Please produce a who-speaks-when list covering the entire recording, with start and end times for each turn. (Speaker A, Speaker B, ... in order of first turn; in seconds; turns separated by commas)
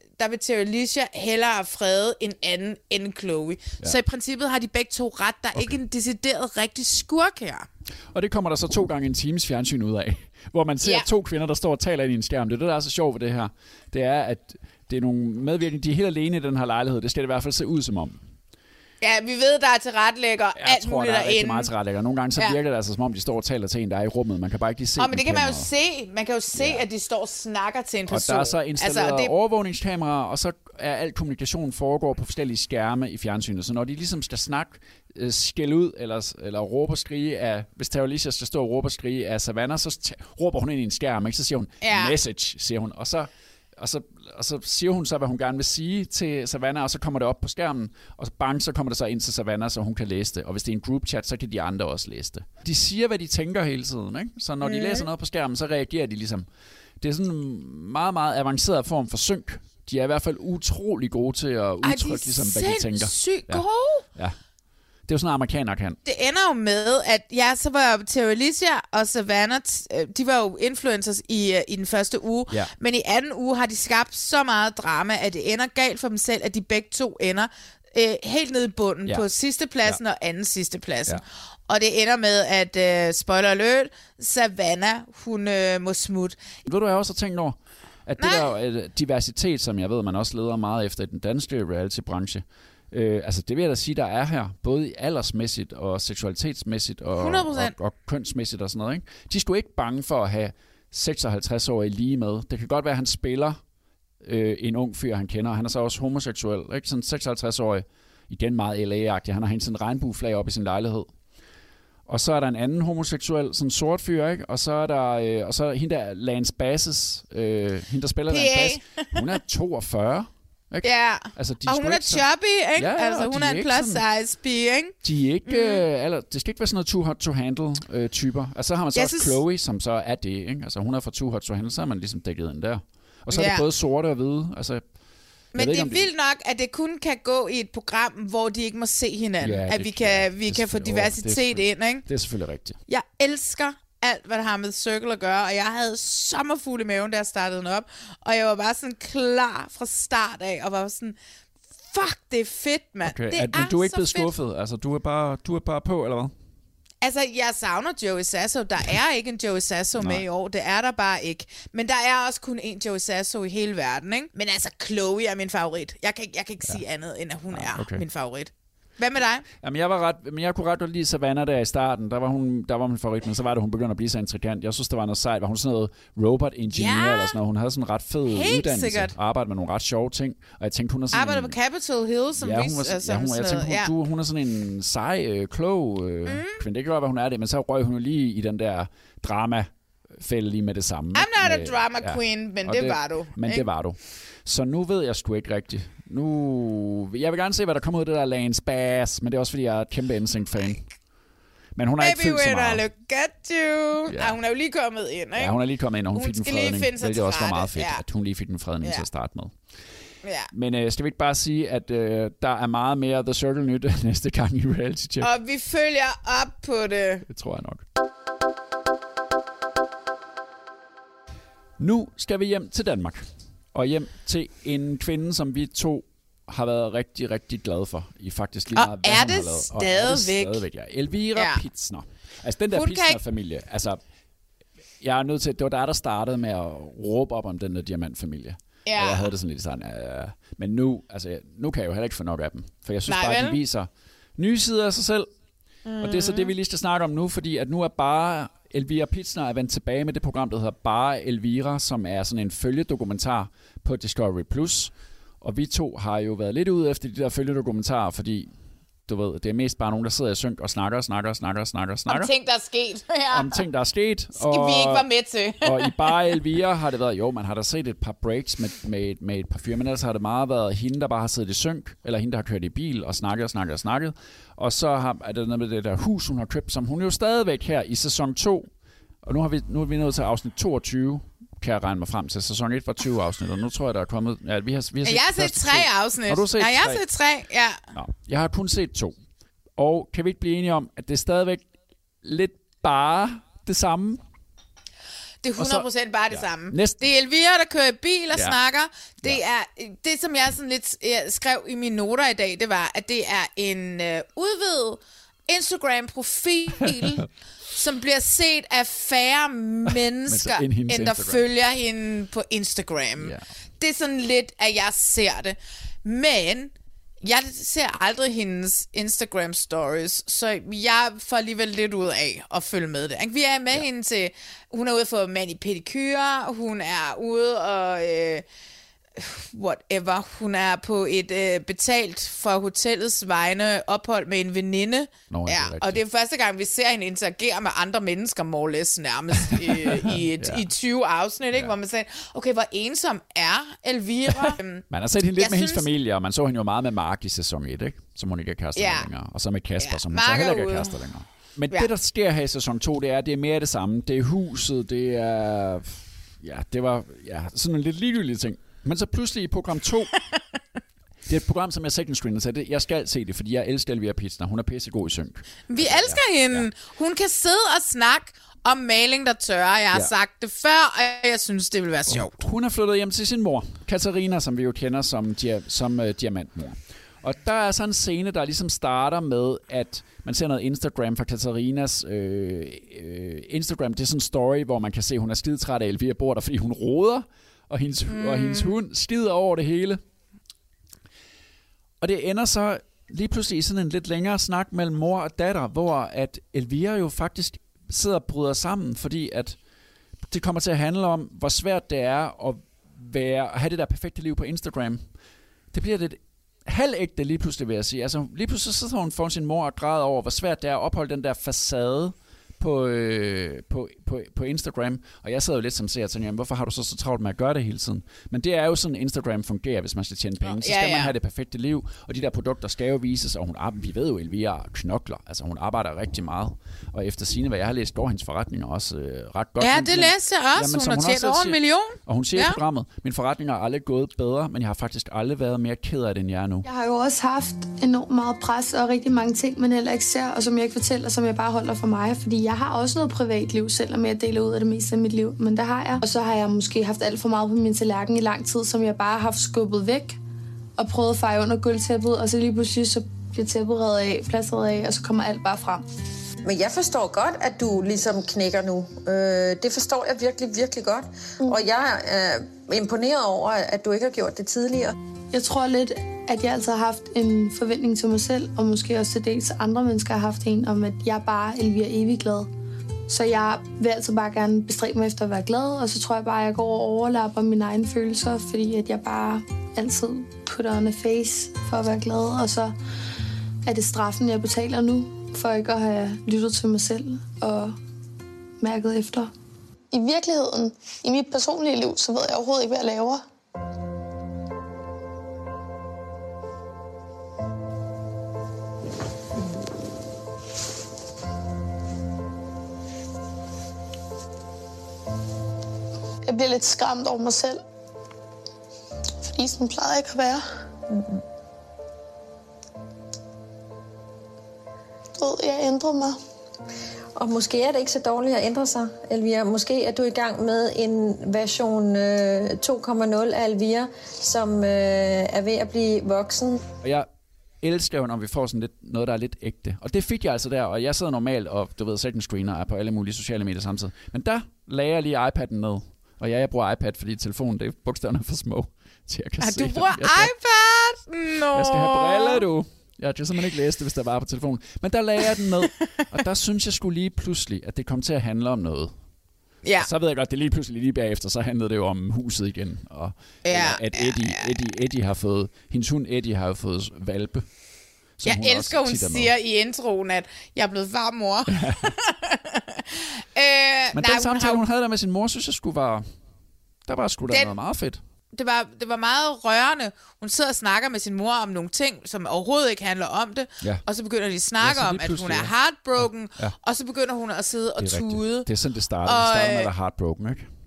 Speaker A: 0.2-7.7, Speaker B: 8.1-18.2, Speaker A: 19.0-21.7, Speaker B: 20.5-25.7, Speaker A: 25.0-29.3, Speaker B: 26.5-26.8, Speaker B: 28.1-56.5, Speaker A: 41.8-42.1, Speaker A: 54.6-55.1, Speaker B: 57.0-63.6, Speaker A: 61.8-64.0, Speaker B: 65.1-66.0, Speaker A: 66.0-86.4, Speaker B: 86.6-103.6, Speaker A: 88.2-88.5, Speaker A: 97.2-97.7, Speaker B: 104.2-111.1, Speaker B: 112.1-124.0, Speaker A: 118.3-119.1, Speaker A: 120.8-124.9, Speaker B: 125.0-134.8, Speaker A: 125.5-125.8, Speaker A: 128.9-129.4, Speaker A: 133.3-133.7, Speaker A: 135.5-142.1, Speaker B: 135.5-136.1, Speaker B: 139.4-142.8, Speaker A: 142.9-151.2, Speaker A: 151.9-154.3, Speaker B: 153.0-156.3, Speaker A: 157.0-169.4, Speaker B: 160.0-160.2, Speaker B: 167.5-168.0, Speaker B: 169.6-181.6, Speaker A: 176.7-177.3, Speaker A: 178.3-179.1, Speaker A: 181.1-183.9, Speaker B: 182.4-200.8, Speaker A: 186.3-186.6, Speaker A: 191.1-193.7, Speaker B: 201.8-202.8, Speaker A: 202.0-205.5, Speaker B: 204.1-204.4, Speaker B: 205.3-209.5, Speaker A: 206.1-208.0, Speaker A: 210.2-210.5, Speaker B: 210.5-215.3, Speaker A: 215.2-217.2, Speaker B: 217.2-217.8, Speaker B: 221.8-234.0, Speaker A: 228.8-230.6, Speaker A: 231.3-231.6, Speaker A: 232.7-233.2, Speaker B: 235.0-245.3, Speaker A: 238.8-239.3, Speaker A: 243.1-243.6, Speaker A: 245.8-246.5, Speaker B: 246.0-258.5, Speaker B: 259.1-262.3, Speaker A: 262.1-263.6, Speaker B: 263.3-265.1, Speaker A: 264.4-266.3, Speaker B: 265.6-278.7, Speaker B: 279.2-287.0, Speaker A: 285.0-287.9, Speaker B: 287.9-289.1, Speaker B: 289.8-291.7, Speaker B: 292.2-294.2, Speaker A: 295.4-328.4, Speaker B: 295.6-297.0, Speaker B: 306.8-307.2, Speaker B: 309.9-311.4, Speaker B: 313.2-313.4, Speaker A: 329.2-344.8, Speaker B: 335.3-336.0, Speaker B: 339.4-340.7, Speaker B: 344.3-360.1, Speaker A: 345.4-345.8, Speaker A: 348.8-349.1, Speaker A: 349.8-350.9, Speaker B: 361.2-366.7, Speaker A: 365.7-372.3, Speaker B: 372.1-390.0, Speaker A: 388.1-388.8, Speaker B: 392.0-399.6, Speaker B: 400.3-405.1, Speaker B: 405.7-436.6, Speaker A: 420.4-421.1, Speaker A: 429.6-432.6, Speaker C: 436.6-450.2, Speaker C: 450.8-455.8, Speaker D: 456.4-464.9, Speaker C: 465.3-472.5, Speaker C: 473.1-482.8, Speaker C: 483.6-487.8, Speaker C: 488.6-489.3, Speaker C: 489.9-493.2, Speaker C: 506.3-507.6, Speaker C: 509.4-509.8, Speaker D: 517.1-526.6, Speaker B: 526.8-527.1, Speaker B: 527.6-540.3, Speaker A: 539.4-542.4, Speaker B: 541.5-548.9, Speaker B: 549.8-557.5, Speaker A: 553.4-554.5, Speaker B: 558.2-559.3, Speaker A: 558.2-564.6, Speaker B: 561.5-561.9, Speaker B: 563.9-566.1, Speaker B: 566.9-568.0, Speaker A: 568.3-578.5, Speaker B: 574.6-576.5, Speaker B: 577.8-580.5, Speaker A: 579.0-579.7